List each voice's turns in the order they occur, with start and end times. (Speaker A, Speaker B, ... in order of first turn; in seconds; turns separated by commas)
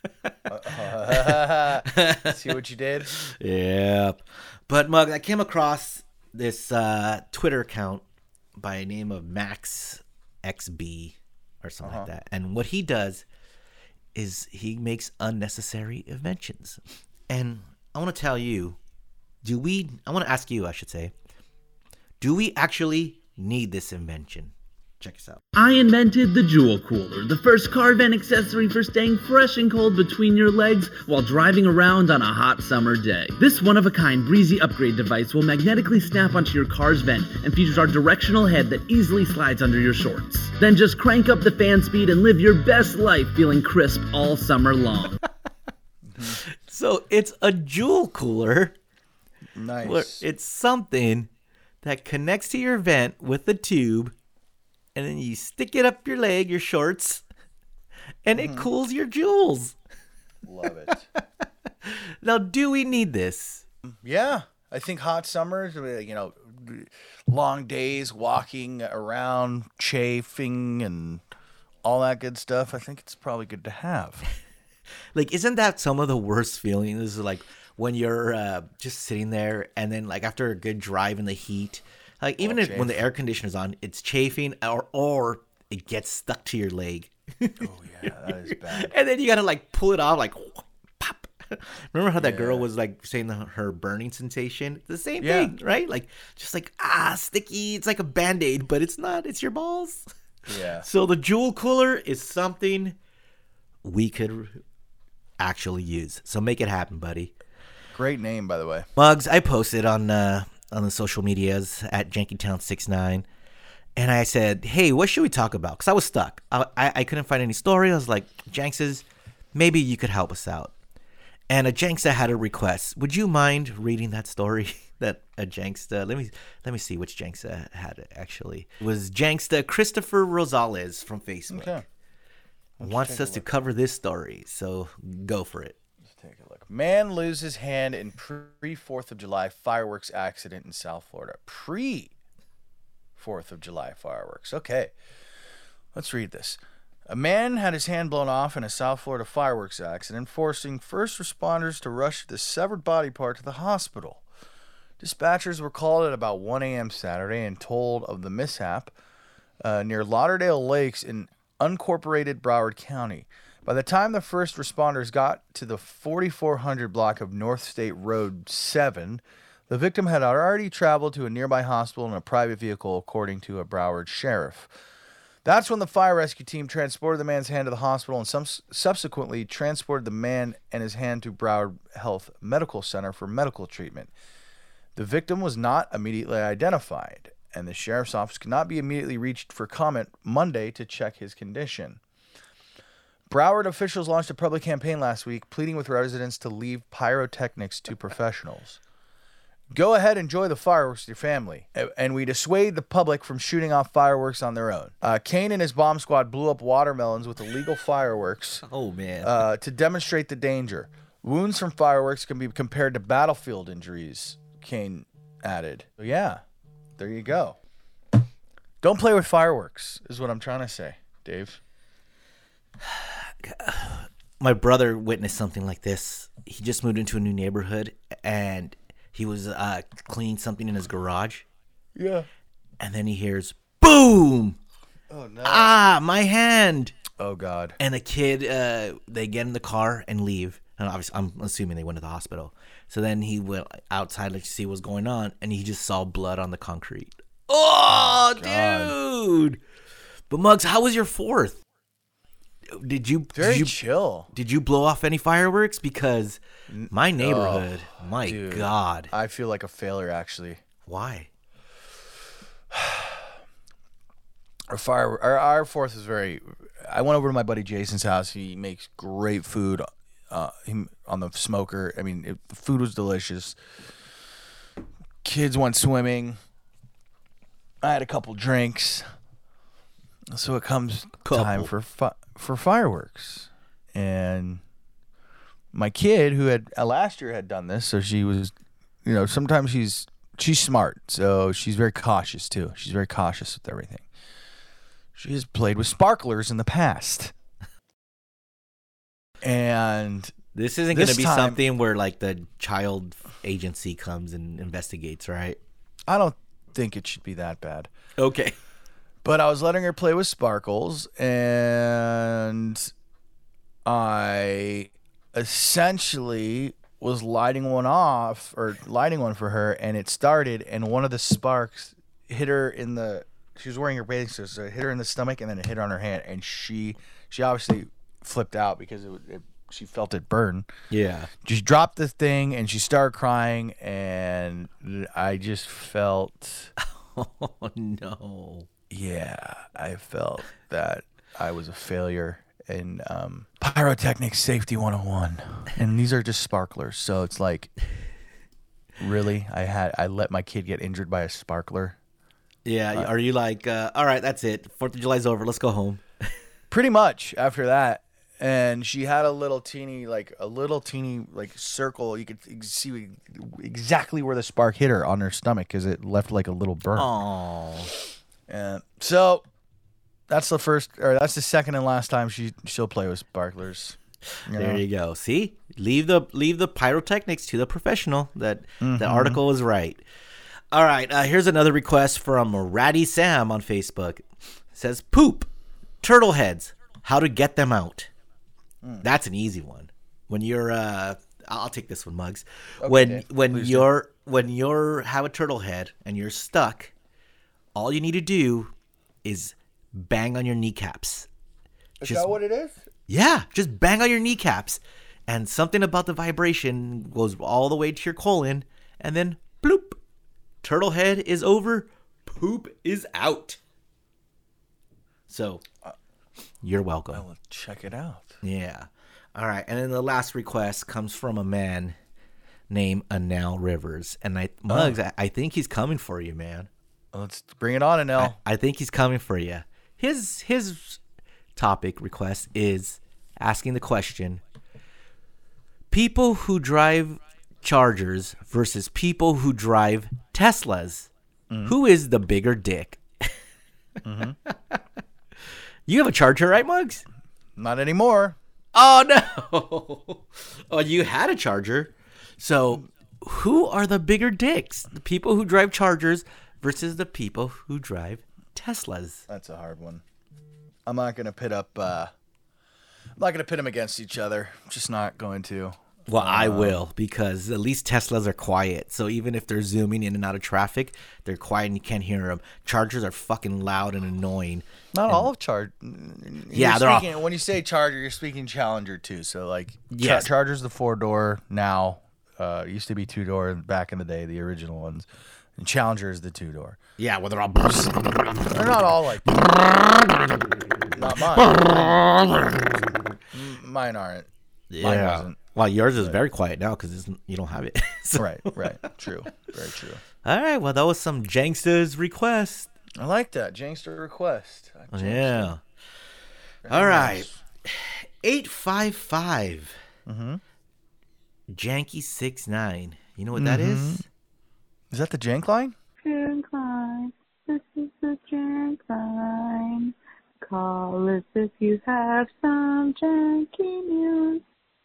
Speaker A: 0.3-8.0, Speaker B: 0.5-3.1, Speaker A: 8.6-13.2, Speaker B: 11.8-12.1, Speaker A: 14.2-18.8, Speaker A: 19.4-21.1, Speaker A: 22.2-25.4, Speaker C: 25.5-45.2, Speaker B: 46.1-46.4, Speaker A: 46.2-48.8, Speaker B: 49.6-50.2, Speaker A: 49.8-51.3, Speaker A: 51.8-54.1, Speaker A: 55.0-57.2, Speaker A: 58.2-59.8, Speaker B: 58.3-58.7, Speaker B: 60.4-61.1, Speaker A: 61.2-63.6, Speaker B: 63.9-71.2, Speaker B: 71.8-74.2, Speaker A: 75.2-100.1, Speaker B: 82.4-83.0, Speaker B: 87.6-88.9, Speaker B: 92.2-92.7, Speaker B: 95.2-95.5, Speaker B: 100.5-100.9, Speaker A: 100.8-103.0, Speaker A: 103.8-104.6, Speaker A: 105.4-107.3, Speaker B: 107.9-108.9, Speaker A: 109.0-113.3, Speaker A: 114.0-120.7, Speaker A: 121.5-131.8, Speaker B: 131.5-131.8, Speaker B: 132.8-133.5, Speaker A: 132.8-135.8, Speaker B: 136.0-142.1, Speaker B: 143.2-144.9, Speaker B: 145.9-154.2, Speaker B: 155.0-158.9, Speaker B: 159.6-174.7, Speaker B: 175.4-184.1, Speaker B: 184.9-192.0, Speaker B: 193.3-198.8, Speaker B: 199.7-208.6, Speaker A: 208.7-209.4, Speaker B: 209.2-216.4, Speaker B: 217.0-217.6, Speaker B: 218.8-221.6, Speaker A: 222.8-231.5, Speaker B: 231.9-232.3, Speaker A: 232.8-234.6, Speaker B: 235.1-235.8, Speaker A: 235.4-236.9, Speaker B: 237.2-237.8, Speaker A: 237.8-249.6, Speaker B: 247.9-248.9, Speaker A: 250.3-251.6, Speaker A: 252.7-253.8, Speaker B: 253.3-254.3, Speaker A: 254.3-259.1, Speaker B: 256.7-260.6, Speaker A: 260.9-261.3, Speaker B: 262.7-263.3, Speaker B: 264.7-273.6, Speaker B: 275.2-276.4, Speaker B: 277.8-279.1, Speaker B: 280.3-284.6, Speaker A: 281.2-281.7, Speaker B: 285.7-294.1, Speaker B: 295.1-297.3, Speaker B: 299.4-300.4, Speaker A: 300.5-305.6, Speaker B: 300.9-301.6, Speaker B: 306.1-307.9, Speaker A: 308.2-308.6, Speaker B: 309.2-312.9, Speaker B: 313.9-330.7, Speaker A: 330.9-331.3, Speaker B: 331.4-336.7, Speaker A: 336.8-338.7, Speaker B: 338.9-347.7, Speaker B: 349.0-352.0, Speaker A: 352.6-356.3, Speaker B: 356.7-367.1, Speaker A: 367.0-367.9, Speaker B: 368.5-369.5, Speaker B: 370.3-374.8, Speaker A: 374.4-380.0, Speaker B: 378.8-379.4, Speaker A: 380.7-385.5, Speaker A: 386.0-388.1, Speaker A: 389.0-396.9, Speaker B: 392.8-393.9, Speaker A: 397.8-398.7, Speaker A: 399.2-401.3, Speaker B: 402.0-402.9, Speaker A: 402.0-402.4, Speaker A: 403.1-410.0, Speaker A: 410.6-413.6, Speaker A: 415.3-415.6, Speaker A: 416.6-417.3, Speaker B: 417.1-418.4, Speaker A: 418.4-422.0, Speaker A: 422.7-426.7, Speaker B: 424.7-425.0, Speaker B: 427.1-428.4, Speaker A: 428.2-431.0, Speaker A: 431.6-434.4, Speaker A: 435.9-441.1, Speaker B: 441.5-441.8, Speaker A: 441.6-443.4, Speaker B: 444.1-444.4, Speaker A: 444.5-444.8, Speaker A: 445.9-447.1, Speaker B: 447.6-448.4, Speaker A: 448.7-459.3, Speaker B: 459.3-460.0, Speaker B: 460.9-462.1, Speaker B: 463.2-466.9, Speaker A: 466.1-475.3, Speaker B: 474.9-486.8, Speaker A: 476.5-477.1, Speaker A: 479.9-480.3, Speaker A: 487.0-490.5, Speaker B: 488.5-489.3, Speaker B: 490.9-491.9, Speaker A: 491.1-492.9, Speaker B: 493.3-494.3, Speaker A: 494.7-498.9, Speaker B: 494.8-495.4, Speaker B: 498.2-500.0, Speaker A: 500.2-502.7, Speaker B: 503.0-505.5, Speaker A: 504.9-505.6, Speaker B: 506.6-507.4, Speaker A: 506.7-509.8, Speaker B: 510.1-510.4, Speaker A: 511.5-514.0, Speaker B: 513.4-514.0, Speaker B: 514.9-515.8, Speaker D: 516.0-524.4